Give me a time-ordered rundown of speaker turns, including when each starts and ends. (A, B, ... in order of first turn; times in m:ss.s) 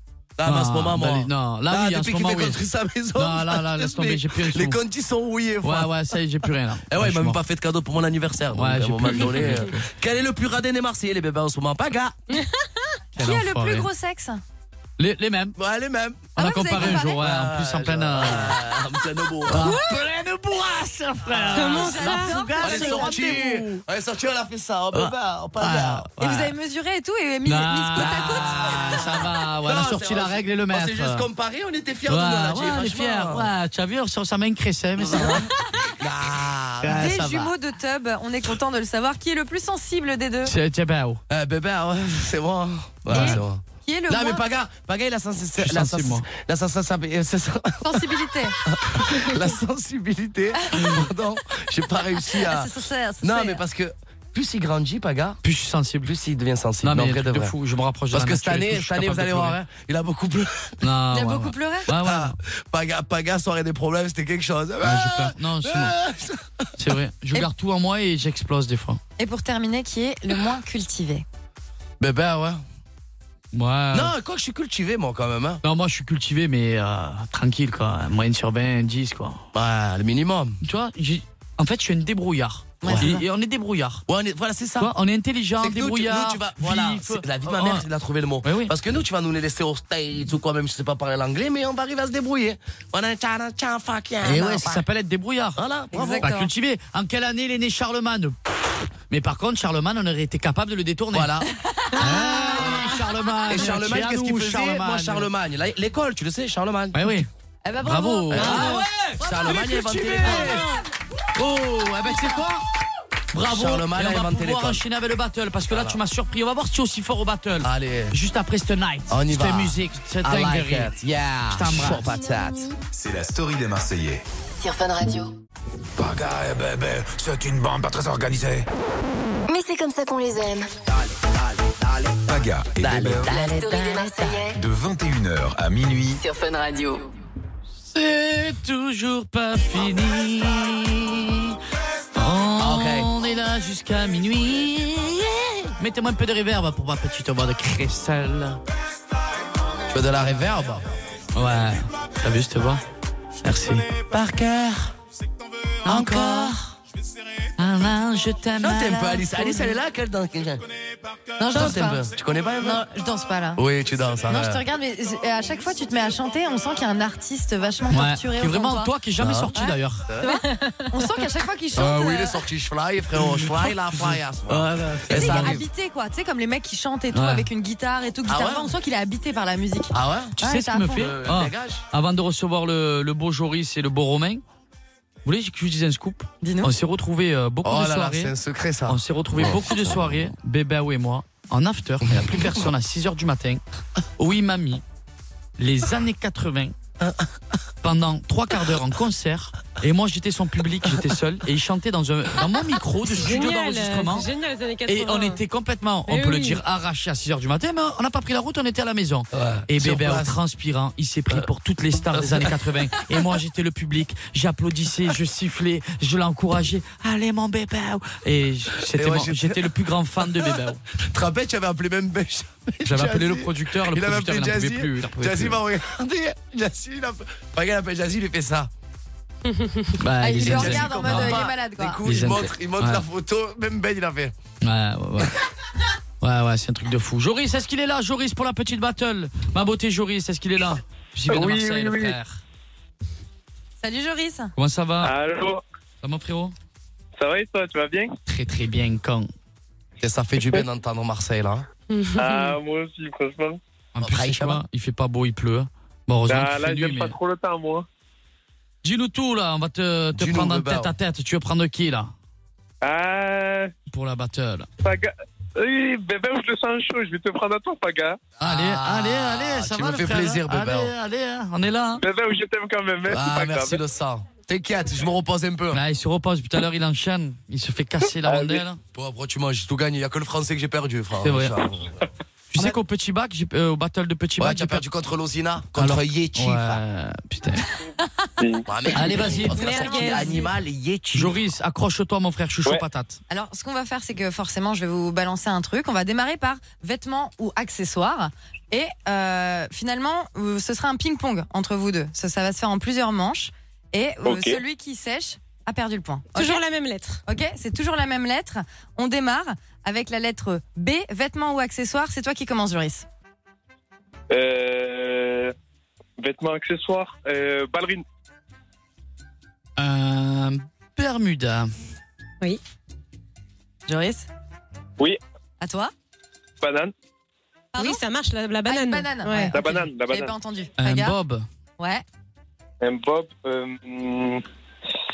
0:00.4-0:06.0 A
0:00.4-0:02.6 B
0:03.2-0:04.8 B
0:05.6-0:07.4 B
0:06.9-0:12.2 A
0:08.5-0:09.9 B
0:12.3-0:12.7 C
0:13.2-0:13.9 B
0:13.2-0:14.4 D
0:15.0-0:15.6 B
0:15.6-0:19.8 A
0:16.4-0:17.2 D
0:16.4-0:18.7 B
0:19.5-0:23.8 B
0:19.6-0:20.0 D
0:21.3-0:21.7 A
0:21.5-0:22.9 C
0:21.6-0:23.4 D
0:22.6-0:26.1 A
0:24.9-0:26.5 B
0:26.2-0:29.3 D
0:27.4-0:31.3 B
0:27.9-0:33.5 A
0:32.1-0:35.5 B
0:35.0-0:37.2 A
0:36.8-0:37.5 B
0:36.9-0:40.5 D
0:40.5-0:41.2 B
0:41.3-0:48.1 A
0:43.1-0:43.4 B
0:43.1-0:44.4 D
0:45.6-0:46.3 B
0:47.8-0:48.6 D
0:48.7-0:52.7 A
0:52.2-0:53.6 D
0:53.2-0:55.4 A
0:55.4-0:56.1 B
0:56.0-0:57.6 A
0:56.8-0:59.6 B
0:58.1-1:00.8 A
1:00.8-1:02.4 B
1:01.1-1:01.9 D
1:01.9-1:06.7 A
1:04.8-1:06.0 B
1:06.8-1:09.0 B
1:09.2-1:11.2 D
1:12.0-1:12.6 A
1:13.5-1:14.1 B
1:13.9-1:15.6 A
1:15.6-1:19.4 B
1:19.5-1:20.6 A
1:20.6-1:24.0 B
1:22.8-1:23.2 D
1:22.8-1:23.2 A
1:24.1-1:24.9 A
1:24.8-1:27.9 B
1:25.6-1:34.8 A
1:28.4-1:28.7 B
1:34.2-1:35.6 B
1:35.6-1:36.3 A
1:35.9-1:36.5 D
1:36.2-1:38.4 B
1:39.1-1:41.4 B
1:41.1-1:41.5 A
1:41.6-1:42.9 D
1:42.0-1:45.3 B
1:42.0-1:42.9 A
1:43.5-1:47.0 A
1:46.9-1:47.3 B
1:47.6-1:48.7 D
1:47.8-1:50.7 B
1:48.3-1:50.7 A
1:48.4-1:48.8 C
1:51.4-1:52.7 B
1:53.3-2:00.9 B
1:53.4-1:54.8 A
1:55.7-1:56.0 A
1:57.6-1:58.2 A
1:59.1-2:02.7 A
2:01.5-2:02.1 B
2:02.9-2:04.2 E
2:04.6-2:05.3 F
2:06.0-2:08.7 E
2:09.5-2:10.7 F
2:11.0-2:11.9 A
2:12.3-2:13.4 E
2:12.8-2:14.4 A
2:13.2-2:14.6 F
2:14.5-2:16.2 E
2:16.1-2:17.1 F
2:17.8-2:21.6 B
2:22.2-2:28.6 B
2:22.6-2:23.1 A
2:29.9-2:30.9 A
2:31.3-2:32.8 B
2:33.4-2:33.9 B
2:34.1-2:34.9 A
2:35.8-2:36.6 A
2:35.9-2:36.6 B
2:37.6-2:39.7 B
2:38.6-2:40.6 A
2:41.4-2:42.0 D
2:41.5-2:42.8 A
2:42.6-2:43.6 D
2:43.6-2:44.6 A
2:44.3-2:48.9 D
2:47.9-2:50.1 B
2:49.2-2:49.6 A
2:49.6-2:50.4 D
2:50.1-2:50.3 A
2:50.2-2:50.9 C
2:50.9-2:52.4 D
2:51.7-2:55.7 A
2:53.2-2:55.6 B
2:55.1-3:01.1 D
2:57.1-2:57.5 B
2:58.3-2:58.8 A
2:59.9-3:00.4 A
3:00.4-3:04.4 B
3:00.9-3:01.8 A
3:05.2-3:08.3 B
3:06.4-3:06.7 D
3:07.6-3:10.0 A
3:08.9-3:13.6 B
3:14.2-3:14.8 B
3:15.6-3:16.8 B
3:17.8-3:24.3 B
3:23.1-3:25.4 C
3:24.9-3:40.8 B
3:26.1-3:26.6 C
3:29.3-3:30.4 A
3:32.1-3:32.5 A
3:38.9-3:39.7 A
3:41.1-3:48.7 A
3:42.8-3:45.6 B
3:49.5-3:50.0 C
3:50.0-3:51.4 B
3:50.2-3:52.0 D
3:50.4-3:54.3 A
3:52.0-3:53.0 B
3:54.6-3:55.4 B
3:56.2-4:02.4 B
4:01.3-4:02.2 G
4:03.8-4:04.5 D
4:04.6-4:05.1 B
4:05.0-4:05.6 G
4:06.0-4:06.6 B
4:07.2-4:08.1 G
4:08.3-4:09.3 B
4:10.0-4:11.7 A
4:11.9-4:12.5 C
4:12.2-4:13.6 G
4:14.0-4:17.2 B
4:14.0-4:14.6 A
4:16.3-4:17.9 G
4:18.8-4:22.1 B
4:20.2-4:20.9 A
4:22.8-4:23.7 G
4:23.9-4:24.7 B
4:24.8-4:28.2 G
4:28.4-4:30.9 A
4:28.4-4:32.0 B
4:32.0-4:33.8 G
4:33.1-4:35.8 A
4:35.7-4:38.8 B
4:38.2-4:38.7 G
4:38.9-4:42.0 A
4:41.2-4:41.6 B
4:42.5-4:44.8 B
4:44.4-4:46.8 A
4:45.8-4:47.7 B
4:48.4-4:48.9 G
4:48.7-4:51.4 A
4:48.9-4:49.8 B
4:49.5-4:50.5 C
4:49.6-4:50.5 D
4:51.1-4:53.2 B
4:53.3-5:06.6 D
5:04.2-5:04.6 G
5:06.4-5:07.2 C
5:07.3-5:13.1 D
5:14.3-5:15.5 G
5:16.2-5:18.0 G
5:19.8-5:21.7 B
5:23.9-5:24.3 D
5:25.6-5:25.9 D
5:26.6-5:26.9 G
5:27.7-5:28.0 D
5:27.8-5:29.6 C
5:28.7-5:31.2 D
5:29.5-5:30.4 G
5:30.8-5:31.5 B
5:31.8-5:32.0 D
5:32.8-5:34.4 G